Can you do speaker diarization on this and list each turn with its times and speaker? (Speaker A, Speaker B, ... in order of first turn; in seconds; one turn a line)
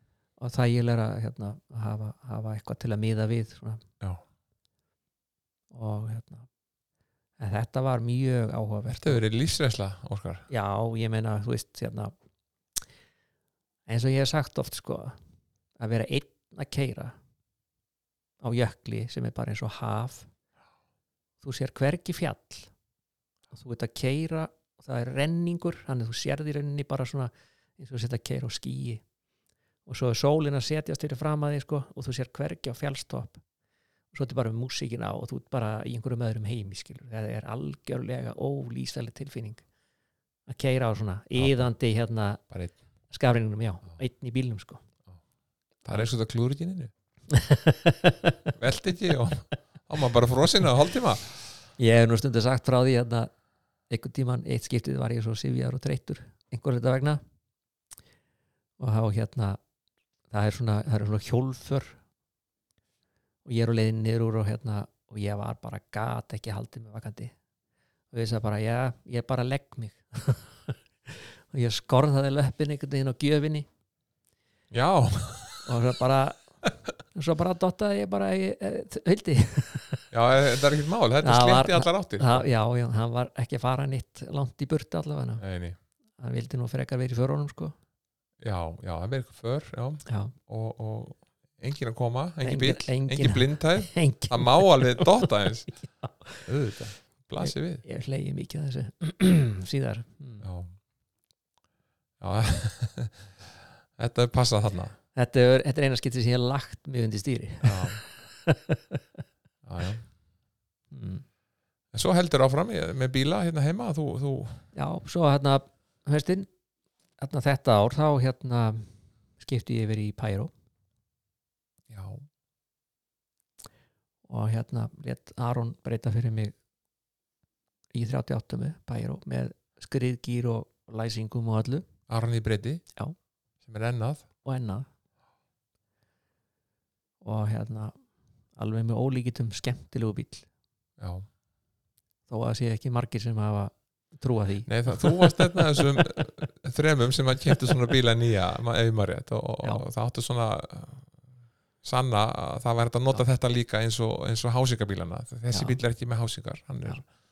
Speaker A: 0.4-3.8
Speaker A: 5.7-6.5
Speaker A: 7.4-9.2
Speaker B: 8.9-10.5
Speaker A: 10.5-12.1
Speaker A: 13.9-15.2
Speaker A: 15.8-17.1
Speaker A: 18.4-20.3
Speaker A: 21.4-22.7
Speaker A: 23.5-29.0
Speaker A: 29.9-33.4
Speaker A: 34.1-39.6
Speaker A: 40.5-42.4
Speaker B: 41.4-41.7
Speaker A: 43.1-44.8
Speaker B: 45.8-46.9
Speaker A: 47.3-48.5
Speaker B: 48.5-51.5
Speaker A: 51.8-53.3
Speaker A: 53.9-57.2
Speaker A: 58.8-59.6
Speaker A: 60.3-62.0
Speaker A: 63.5-67.3
Speaker A: 68.1-73.7
Speaker B: 74.7-75.8
Speaker A: 75.6-76.6
Speaker A: 77.1-80.1
Speaker B: 80.1-82.5
Speaker A: 81.2-85.4
Speaker B: 85.4-85.8
Speaker A: 86.2-87.8
Speaker B: 88.4-95.7
Speaker A: 90.1-90.3
Speaker A: 92.4-96.5
Speaker B: 96.5-97.8
Speaker A: 97.4-100.5
Speaker B: 100.4-100.7
Speaker B: 102.2-105.0
Speaker A: 105.2-109.0
Speaker B: 107.6-108.0
Speaker B: 109.6-110.1
Speaker A: 110.9-111.2
Speaker B: 111.9-114.7
Speaker A: 114.7-116.5
Speaker A: 117.2-120.5
Speaker B: 121.9-122.3
Speaker A: 124.3-126.5
Speaker A: 127.9-131.9
Speaker B: 132.1-132.8
Speaker B: 133.6-134.3
Speaker A: 134.4-134.9
Speaker A: 137.2-138.0
Speaker A: 138.6-140.5
Speaker B: 141.0-141.3
Speaker A: 142.3-146.0
Speaker B: 144.7-151.1
Speaker B: 151.8-157.1
Speaker A: 155.5-155.8